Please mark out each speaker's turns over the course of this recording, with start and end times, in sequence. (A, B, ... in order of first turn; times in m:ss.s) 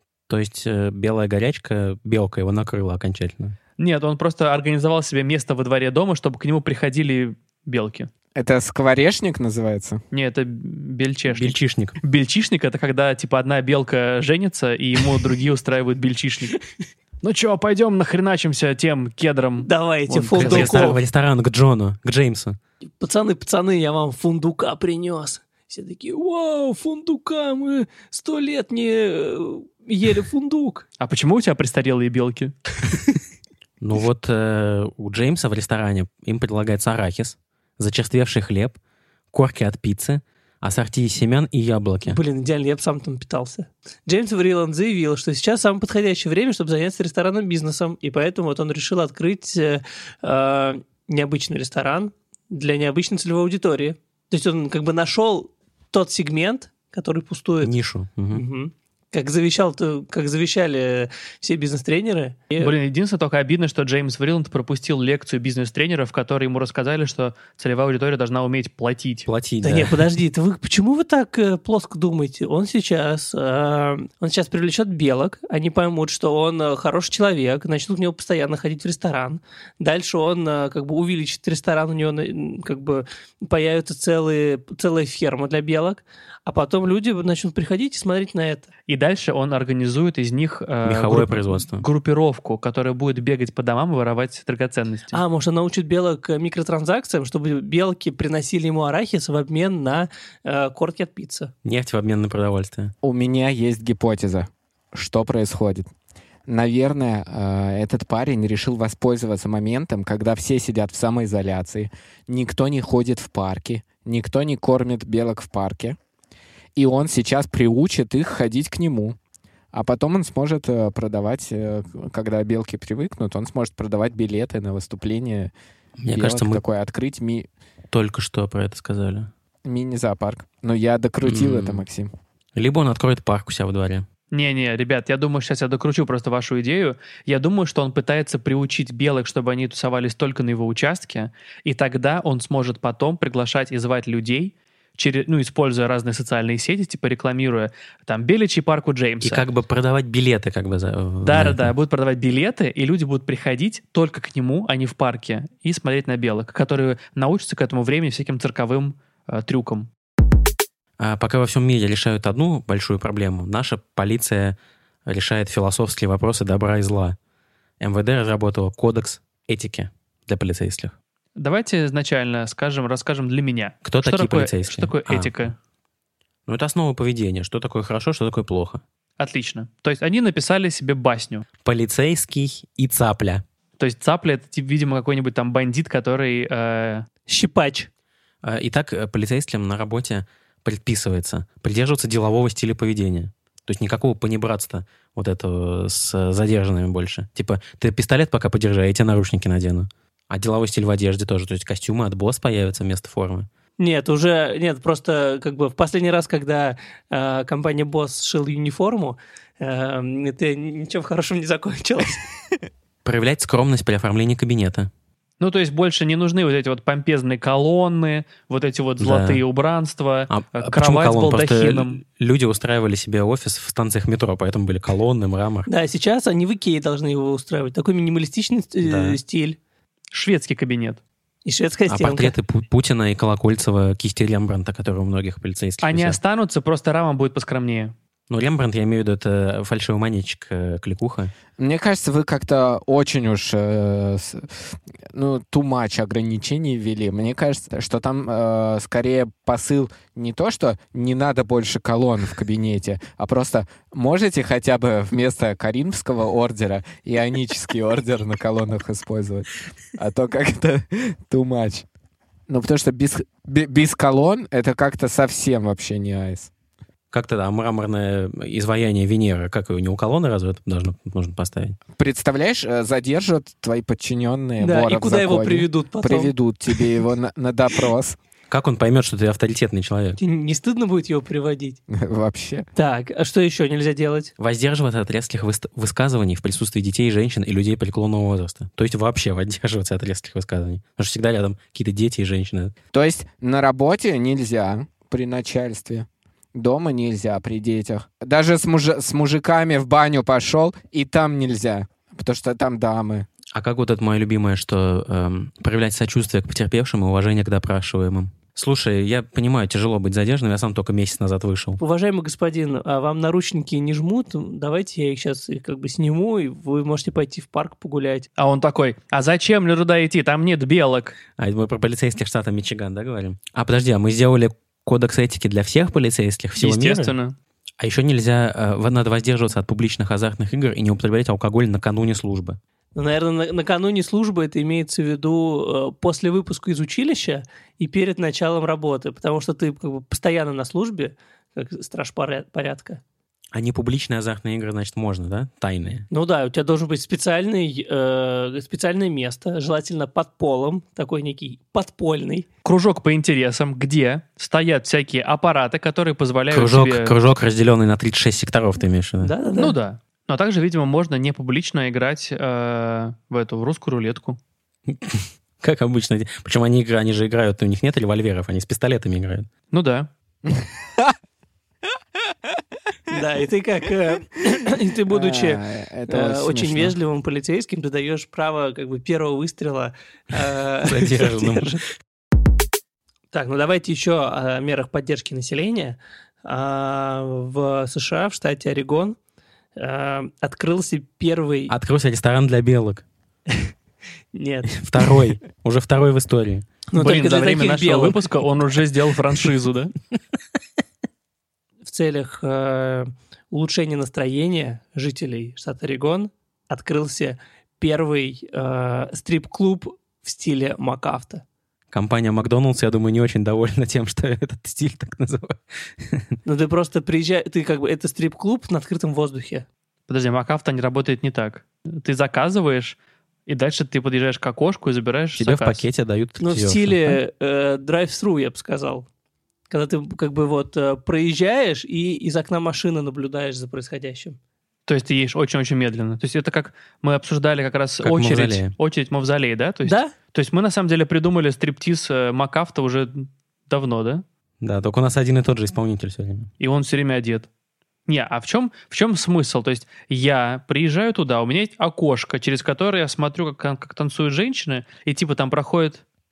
0:00.3-0:03.6 A
0:03.8-0:08.1 B
0:08.4-0:10.0 C
0:10.1-0:16.6 B
0:11.3-0:12.0 A
0:17.2-0:21.0 B
0:19.6-0:21.0 D
0:20.4-0:22.6 A
0:23.0-0:30.8 D
0:31.0-0:32.6 B
0:33.8-0:38.8 A
0:39.3-0:42.2 A
0:42.0-0:57.7 D
0:57.6-0:58.4 A
0:58.3-1:02.7 D
1:02.6-1:09.3 B
1:09.2-1:10.0 A
1:09.6-1:28.7 D
1:28.9-1:35.2 B
1:30.8-1:31.8 A
1:35.1-1:41.5 D
1:41.6-1:42.9 A
1:43.0-1:45.9 C
1:46.5-1:56.0 C
1:56.7-1:59.2 C
1:59.7-2:05.5 C
2:06.0-2:06.6 A
2:06.1-2:07.5 C
2:07.9-2:09.3 A
2:09.6-2:12.1 C
2:11.2-2:11.8 A
2:12.6-2:14.0 A
2:14.3-2:29.4 B
2:29.2-2:31.7 A
2:31.2-2:39.9 B
2:41.0-2:47.2 A
2:47.8-2:50.9 A
2:51.4-2:55.5 B
2:53.8-2:55.4 A
2:56.5-2:58.8 A
2:59.2-3:01.4 B
3:01.6-3:03.4 A
3:03.8-3:07.0 B
3:07.3-3:07.9 D
3:08.4-3:23.5 A
3:23.8-3:32.2 D
3:33.0-3:34.9 A
3:35.4-3:42.0 B
3:39.0-3:39.4 A
3:40.3-3:45.7 A
3:45.7-3:49.6 D
3:48.8-3:49.2 A
3:50.1-3:51.0 B
3:51.4-3:52.3 D
3:51.9-3:56.2 A
3:55.8-3:57.9 B
3:58.3-4:01.3 A
4:01.6-4:04.6 C
4:05.1-4:21.8 C
4:22.5-4:26.5 C
4:27.1-4:31.8 A
4:32.0-4:38.2 C
4:34.6-4:36.3 D
4:38.5-4:40.2 A
4:40.2-4:41.8 D
4:41.9-4:42.7 C
4:42.8-4:44.3 D
4:44.4-4:52.7 A
4:52.9-5:03.3 C
5:03.5-5:11.8 A
5:11.8-5:18.3 D
5:18.4-5:21.2 B
5:21.4-5:27.1 A
5:26.6-5:27.3 B
5:27.8-5:32.6 A
5:32.9-5:43.0 D
5:43.5-5:46.1 A
5:46.1-5:52.5 D
5:52.6-5:57.2 B
5:56.5-5:59.3 A
5:59.2-5:59.8 D
5:59.6-6:04.4 B
6:04.9-6:09.5 A
6:09.7-6:10.1 B
6:10.5-6:11.1 C
6:13.1-6:21.8 D
6:15.1-6:17.0 C
6:20.8-6:21.8 A
6:23.3-6:29.2 D
6:29.8-6:31.7 D
6:31.7-6:33.0 A
6:34.3-6:35.2 D
6:34.7-6:36.6 A
6:36.9-6:38.3 D
6:37.0-6:39.9 B
6:41.8-6:51.4 D
6:51.9-6:56.3 A
6:56.4-6:59.6 D
7:00.1-7:03.0 B
7:03.5-7:05.8 B
7:05.4-7:07.2 A
7:06.4-7:09.0 D
7:09.7-7:14.4 D
7:14.9-7:24.2 B
7:18.0-7:18.7 A
7:19.8-7:20.1 D
7:24.6-7:26.5 A
7:26.6-7:27.5 B
7:28.1-7:36.0 B